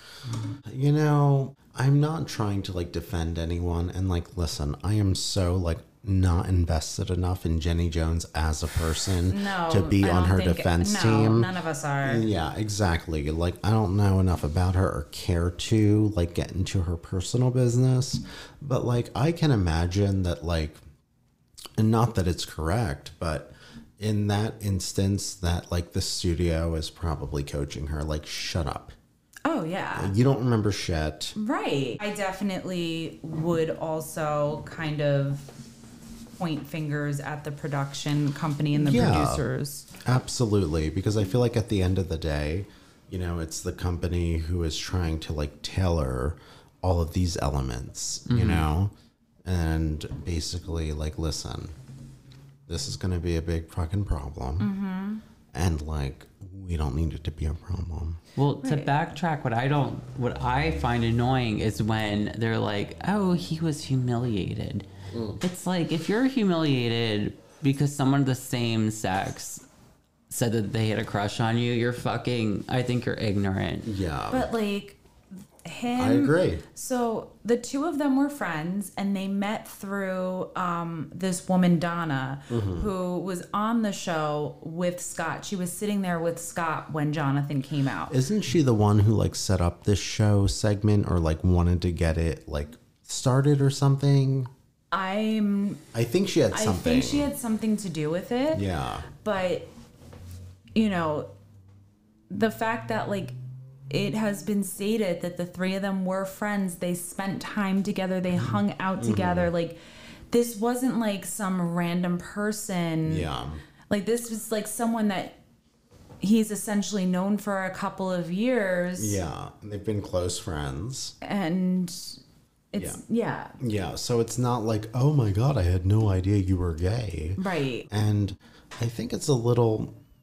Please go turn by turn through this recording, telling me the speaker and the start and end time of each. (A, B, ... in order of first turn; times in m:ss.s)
0:00.6-0:11.5 A
0:09.3-0:12.3 B
0:12.0-0:20.8 A
0:21.8-0:29.0 A
0:29.4-0:30.1 B
0:30.0-0:31.4 A
0:31.4-0:35.5 B
0:36.4-0:39.9 B
0:38.7-0:39.4 A
0:40.0-0:48.9 A
0:48.3-0:48.7 C
0:49.4-0:51.8 A
0:52.7-0:54.7 A
0:54.6-0:55.2 B
0:55.5-0:58.2 A
0:58.4-1:04.9 C
0:58.6-0:58.9 B
1:05.1-1:05.4 A
1:05.4-1:09.6 C
1:10.3-1:13.9 C
1:13.8-1:14.5 A
1:14.3-1:15.0 B
1:15.6-1:28.2 B
1:16.0-1:16.6 A
1:22.5-1:22.9 A
1:28.1-1:34.5 A
1:34.9-1:35.8 B
1:35.9-1:37.3 A
1:36.5-1:38.6 B
1:38.5-1:39.1 A
1:39.2-1:39.7 B
1:40.8-1:41.3 B
1:42.3-1:43.4 B
1:43.9-1:49.8 B
1:48.4-1:49.5 A
1:50.3-1:53.3 B
1:53.0-1:53.6 A
1:53.9-1:55.4 B
1:56.2-1:59.2 B
1:59.0-2:01.2 A
2:01.2-2:02.2 B
2:02.7-2:03.6 B
2:02.8-2:03.0 A
2:03.6-2:10.0 A
2:07.4-2:07.9 B